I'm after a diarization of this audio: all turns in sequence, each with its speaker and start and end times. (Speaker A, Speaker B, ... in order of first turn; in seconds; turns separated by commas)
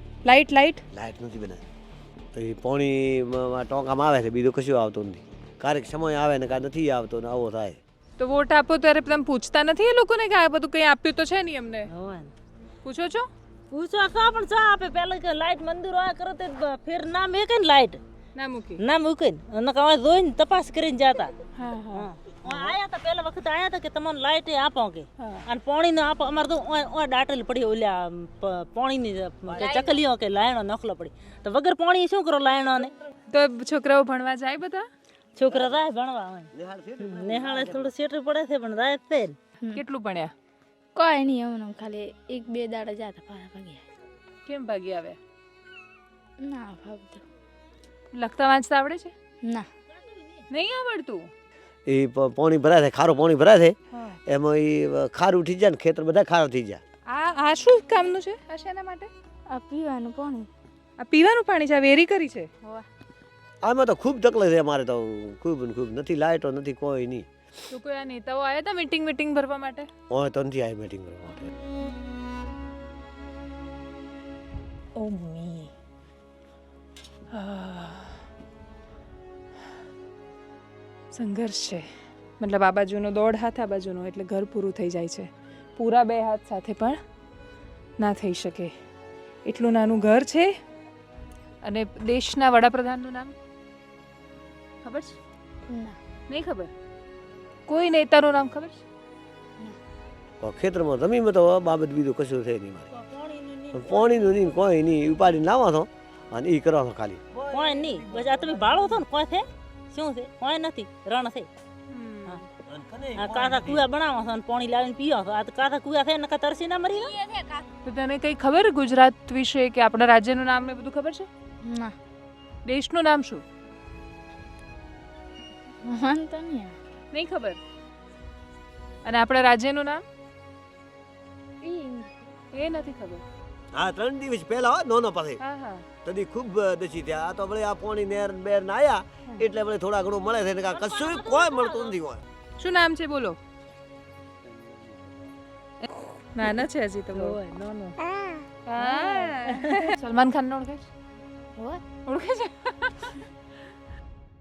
Speaker A: 0.2-0.8, Speaker B: 0.9-1.6, Speaker B: 2.3-7.8, Speaker A: 8.2-11.9, Speaker C: 11.9-12.3, Speaker A: 12.8-13.3, Speaker C: 13.7-18.0, Speaker A: 18.4-18.8, Speaker C: 18.8-21.3, Speaker A: 21.5-22.1, Speaker C: 21.9-32.9, Speaker B: 22.4-22.8, Speaker A: 25.2-25.4, Speaker B: 29.4-29.9, Speaker A: 33.3-34.9, Speaker C: 35.4-39.4, Speaker B: 35.4-35.8, Speaker B: 36.5-37.9, Speaker A: 39.7-40.3, Speaker D: 40.9-43.8, Speaker A: 44.5-45.2, Speaker D: 46.4-47.2, Speaker A: 48.1-49.1, Speaker D: 49.4-49.7, Speaker C: 49.9-50.4, Speaker A: 50.5-51.3, Speaker B: 51.9-56.8, Speaker A: 53.9-54.2, Speaker A: 57.1-59.1, Speaker D: 59.5-60.5, Speaker A: 61.0-62.5, Speaker D: 62.6-62.9, Speaker B: 63.6-67.3, Speaker A: 67.7-69.9, Speaker B: 70.1-71.5, Speaker A: 75.0-75.7, Speaker A: 77.3-78.2, Speaker A: 81.1-81.9, Speaker A: 82.4-87.0, Speaker A: 88.0-88.7, Speaker A: 89.4-90.5, Speaker A: 91.6-93.3, Speaker A: 94.8-95.2, Speaker D: 95.7-96.0, Speaker A: 96.3-96.7, Speaker A: 97.7-98.8, Speaker B: 100.4-102.9, Speaker C: 102.9-104.5, Speaker B: 103.7-109.0, Speaker C: 107.5-111.5, Speaker A: 111.9-112.5, Speaker B: 112.7-113.8, Speaker C: 113.2-117.2, Speaker D: 117.2-117.7, Speaker A: 117.8-121.3, Speaker D: 121.6-121.9, Speaker A: 122.6-123.4, Speaker D: 125.8-126.8, Speaker A: 127.1-127.6, Speaker A: 129.0-130.0, Speaker D: 131.6-132.3, Speaker A: 132.5-133.2, Speaker B: 133.7-135.4, Speaker A: 135.4-135.8, Speaker B: 136.0-142.2, Speaker C: 140.7-142.0, Speaker A: 142.6-143.4, Speaker B: 144.4-145.4, Speaker A: 145.8-147.4, Speaker C: 147.1-148.0, Speaker A: 148.7-150.9, Speaker C: 148.8-149.9, Speaker D: 151.6-151.8, Speaker A: 152.1-153.2